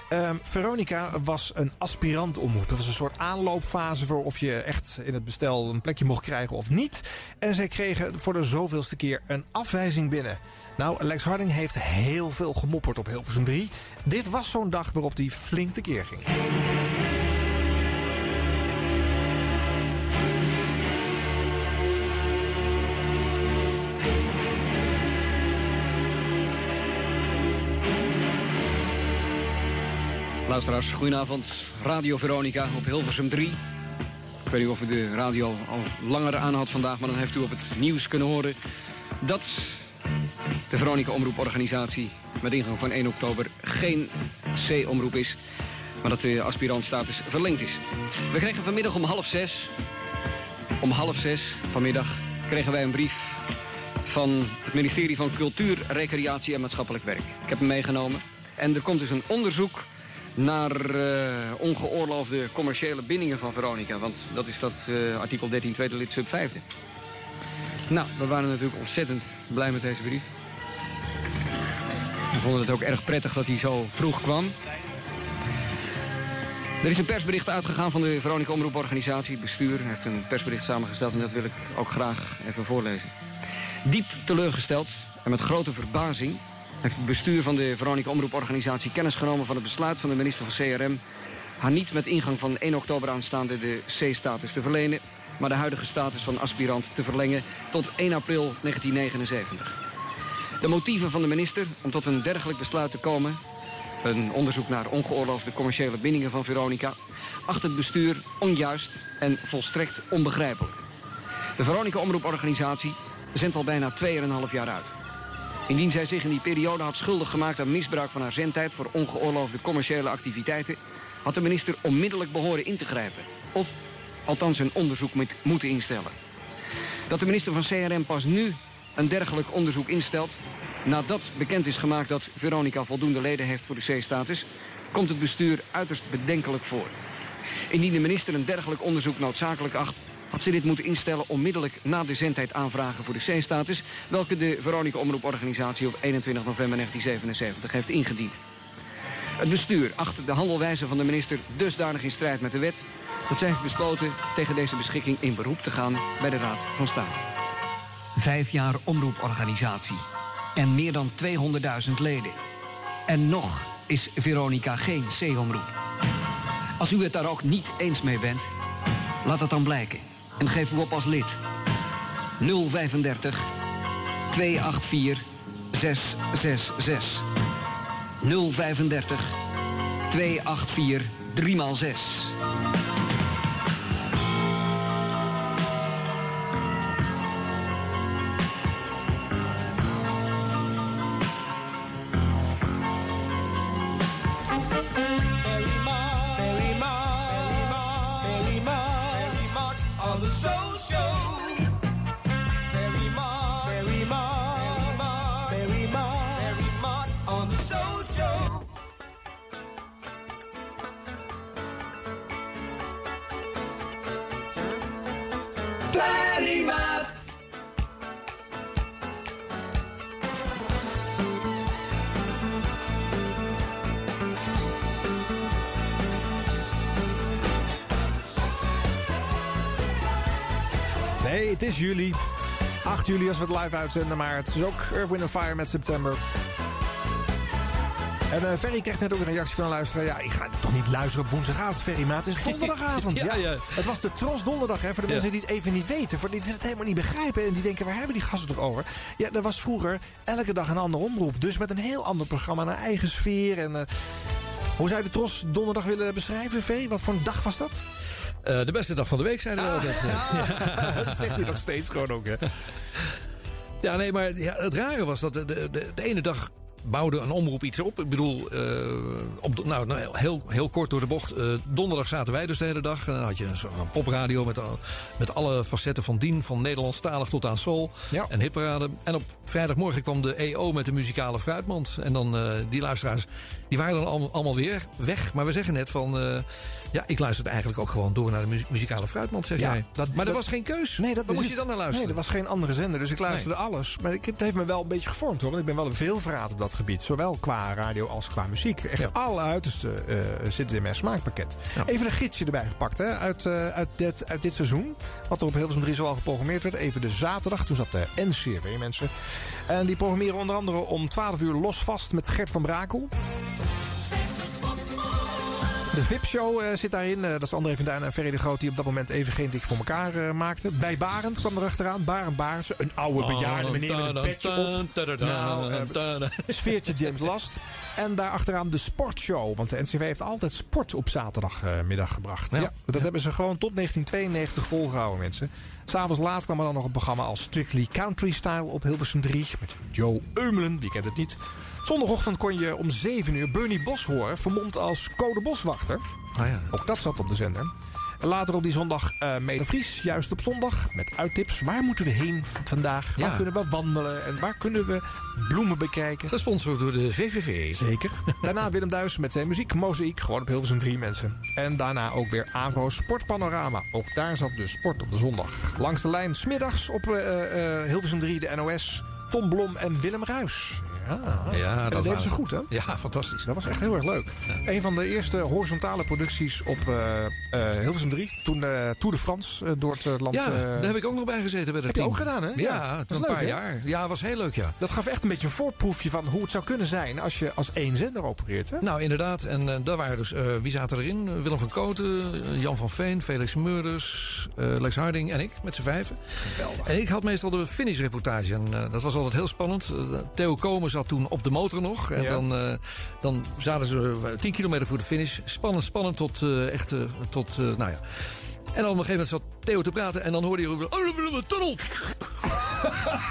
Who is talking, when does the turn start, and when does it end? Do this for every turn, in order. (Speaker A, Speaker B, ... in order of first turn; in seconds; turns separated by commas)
Speaker A: 0.1-16.3, Speaker B: 30.5-33.6, Speaker B: 34.5-38.6, Speaker B: 39.2-39.5, Speaker B: 40.7-45.4, Speaker B: 46.0-47.8, Speaker B: 48.3-49.7, Speaker B: 50.8-53.2, Speaker B: 54.1-59.9, Speaker B: 60.4-66.6, Speaker B: 67.9-70.3, Speaker B: 72.3-74.5, Speaker B: 76.8-83.1, Speaker B: 83.9-91.0, Speaker B: 91.6-99.7, Speaker B: 100.6-103.4, Speaker B: 104.0-107.0, Speaker B: 107.5-110.8, Speaker B: 111.6-114.9, Speaker B: 115.7-123.7, Speaker B: 124.3-126.1, Speaker B: 127.1-130.3, Speaker B: 130.9-136.9, Speaker B: 137.7-148.4, Speaker B: 149.4-157.2, Speaker B: 158.2-160.0, Speaker B: 160.6-162.4, Speaker B: 163.1-165.7, Speaker B: 166.8-168.5, Speaker B: 169.2-171.3, Speaker B: 172.4-173.5, Speaker B: 174.3-177.2, Speaker B: 178.2-179.3, Speaker B: 180.1-182.3, Speaker A: 231.2-232.2, Speaker A: 232.8-236.2, Speaker A: 238.3-253.9, Speaker C: 242.4-243.8, Speaker A: 254.8-257.8, Speaker C: 258.4-261.3, Speaker A: 259.6-262.4, Speaker C: 263.8-292.2, Speaker A: 289.6-290.5, Speaker A: 291.0-309.1, Speaker A: 309.7-313.1, Speaker A: 315.9-326.0, Speaker C: 323.2-327.2, Speaker A: 326.5-346.0, Speaker C: 332.5-333.0, Speaker C: 346.4-346.7, Speaker A: 346.7-356.3, Speaker C: 353.2-353.5, Speaker C: 356.3-357.8, Speaker A: 357.7-372.7, Speaker C: 371.5-373.5, Speaker A: 373.4-380.9, Speaker C: 380.3-384.8, Speaker A: 381.9-383.6, Speaker A: 384.8-388.8, Speaker C: 388.8-396.2, Speaker A: 396.5-396.9, Speaker C: 396.8-408.0, Speaker A: 402.2-402.4, Speaker C: 408.7-412.6